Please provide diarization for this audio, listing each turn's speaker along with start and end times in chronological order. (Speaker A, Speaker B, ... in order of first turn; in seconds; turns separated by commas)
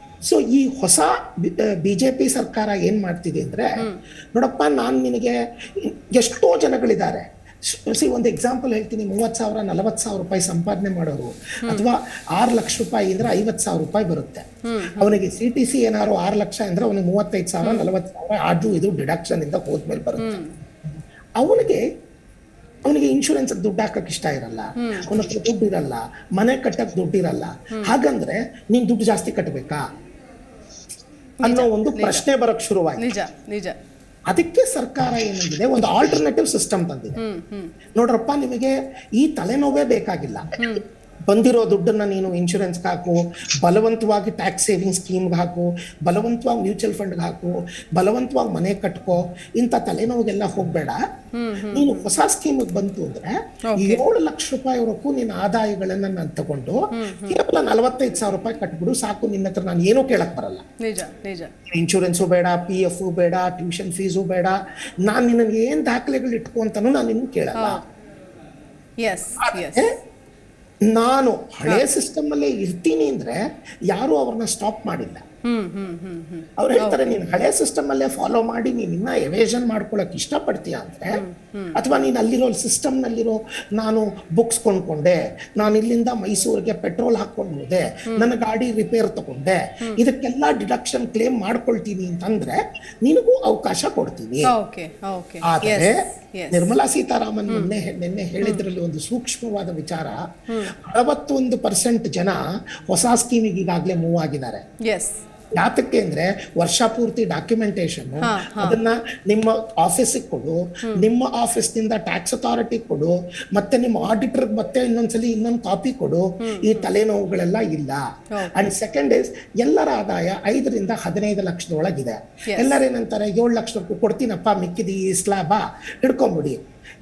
Speaker A: 0.2-20.4, Speaker B: 14.6-15.2, Speaker B: 20.2-20.5, Speaker A: 21.4-21.9, Speaker A: 22.9-29.8, Speaker B: 24.8-25.2, Speaker B: 31.4-32.2, Speaker A: 31.4-33.2, Speaker B: 33.0-33.8, Speaker A: 34.3-37.2, Speaker B: 37.2-37.7, Speaker A: 38.0-40.6, Speaker A: 41.3-51.0, Speaker B: 51.3-52.1, Speaker A: 51.7-60.6, Speaker B: 53.7-54.0, Speaker B: 56.9-57.4, Speaker B: 60.8-61.5, Speaker A: 61.7-67.8, Speaker B: 67.5-67.8, Speaker B: 69.0-69.9, Speaker A: 69.4-69.9, Speaker A: 70.9-75.2, Speaker B: 75.5-77.1, Speaker A: 76.6-81.2, Speaker B: 81.1-81.8, Speaker A: 81.8-94.5, Speaker B: 94.5-96.7, Speaker A: 95.4-100.2, Speaker B: 97.5-97.7, Speaker B: 100.5-100.7, Speaker A: 100.8-104.6, Speaker B: 104.8-105.2, Speaker A: 105.6-126.6, Speaker B: 108.2-108.8, Speaker B: 116.4-116.9, Speaker B: 118.3-118.7, Speaker B: 122.5-122.8